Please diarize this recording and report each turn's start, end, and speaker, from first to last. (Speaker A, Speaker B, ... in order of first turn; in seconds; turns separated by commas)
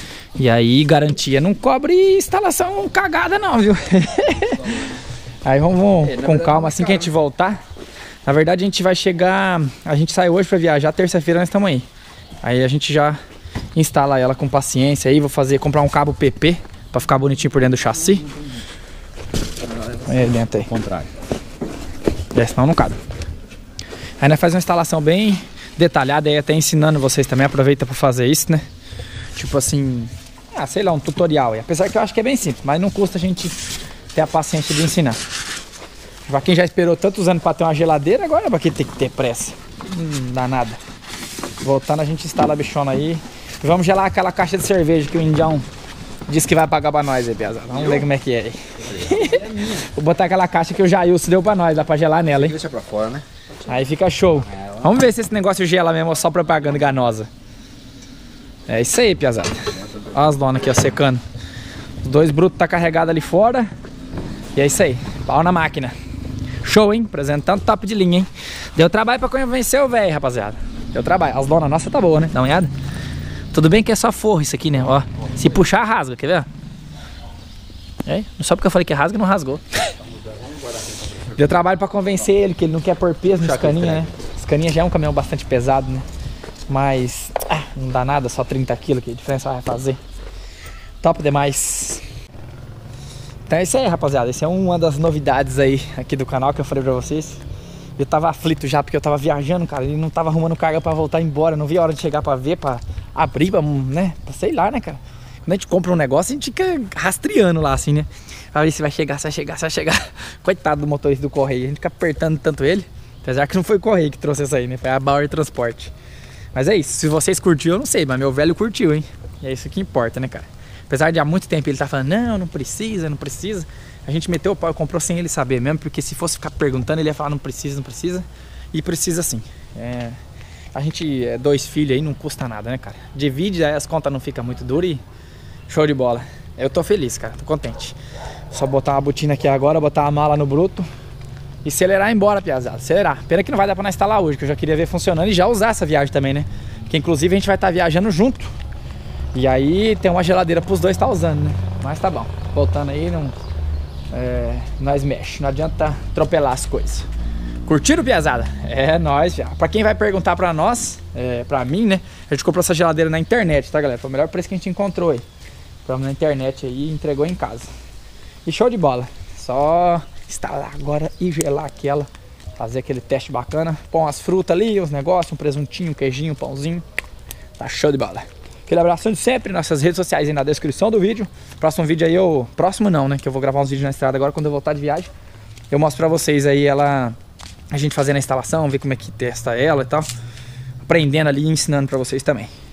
Speaker A: 0.4-4.9, Speaker A: 5.4-7.6, Speaker B: 6.0-7.1, Speaker A: 8.2-11.9, Speaker A: 12.4-13.2, Speaker A: 13.8-18.2, Speaker B: 19.6-21.1, Speaker A: 20.1-20.7, Speaker A: 22.4-23.0, Speaker A: 24.2-28.6, Speaker A: 29.4-33.6, Speaker A: 34.1-35.2, Speaker A: 36.2-40.8, Speaker A: 41.6-45.6, Speaker A: 46.3-52.6, Speaker B: 47.7-48.1, Speaker B: 48.9-49.9, Speaker B: 52.3-53.2, Speaker A: 53.7-57.3, Speaker B: 54.5-54.9, Speaker A: 58.7-61.2, Speaker A: 62.0-63.7, Speaker A: 64.5-65.9, Speaker A: 66.6-72.7, Speaker A: 73.5-76.5, Speaker A: 78.0-79.8, Speaker B: 80.3-80.6, Speaker A: 81.3-86.0, Speaker B: 83.3-84.1, Speaker A: 86.7-90.0, Speaker A: 91.0-92.0, Speaker A: 93.5-97.4, Speaker A: 98.0-115.9, Speaker A: 116.5-130.2, Speaker A: 130.7-135.0, Speaker A: 135.7-138.0, Speaker A: 138.5-140.9, Speaker A: 141.6-148.5, Speaker A: 149.3-153.3, Speaker A: 154.1-157.1, Speaker A: 157.7-165.2, Speaker A: 165.8-167.7, Speaker A: 168.4-176.8, Speaker A: 177.6-185.1, Speaker A: 185.7-187.2, Speaker A: 187.7-190.1, Speaker A: 190.8-192.5